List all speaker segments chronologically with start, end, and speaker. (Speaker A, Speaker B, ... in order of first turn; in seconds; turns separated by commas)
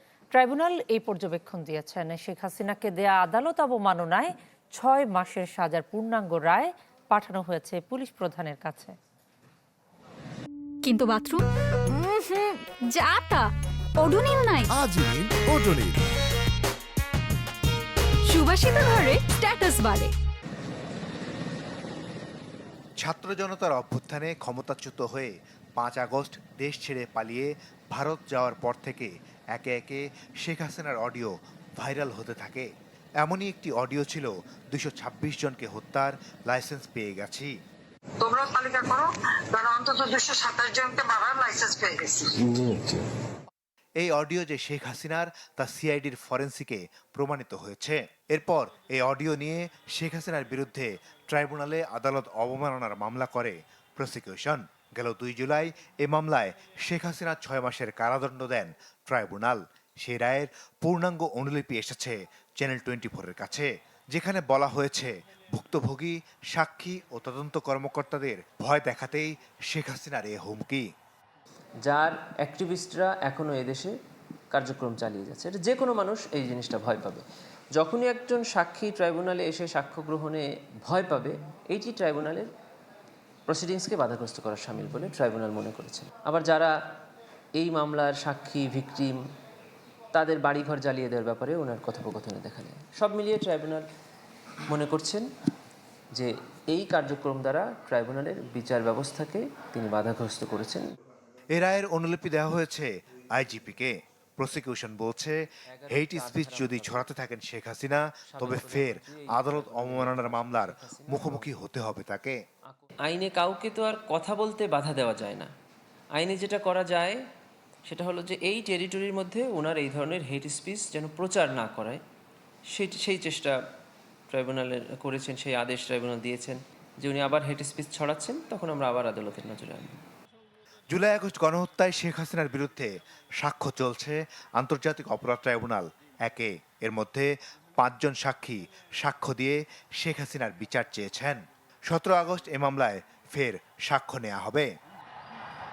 Speaker A: 0.3-8.9, Speaker B: 10.8-14.7, Speaker C: 14.7-16.0, Speaker B: 18.3-20.1, Speaker D: 23.0-32.7, Speaker D: 33.2-37.5, Speaker E: 38.2-42.4, Speaker C: 42.4-43.0, Speaker D: 44.0-70.9, Speaker F: 71.8-73.9, Speaker F: 74.5-77.2, Speaker F: 77.8-82.5, Speaker F: 83.5-86.7, Speaker F: 87.6-89.2, Speaker F: 90.1-93.8, Speaker F: 94.7-95.3, Speaker F: 96.2-100.9, Speaker D: 101.5-112.4, Speaker F: 105.7-107.1, Speaker F: 108.3-111.5, Speaker F: 112.7-115.5, Speaker F: 116.2-117.2, Speaker F: 117.9-122.0, Speaker F: 122.7-123.6, Speaker F: 124.3-130.0, Speaker D: 130.9-144.7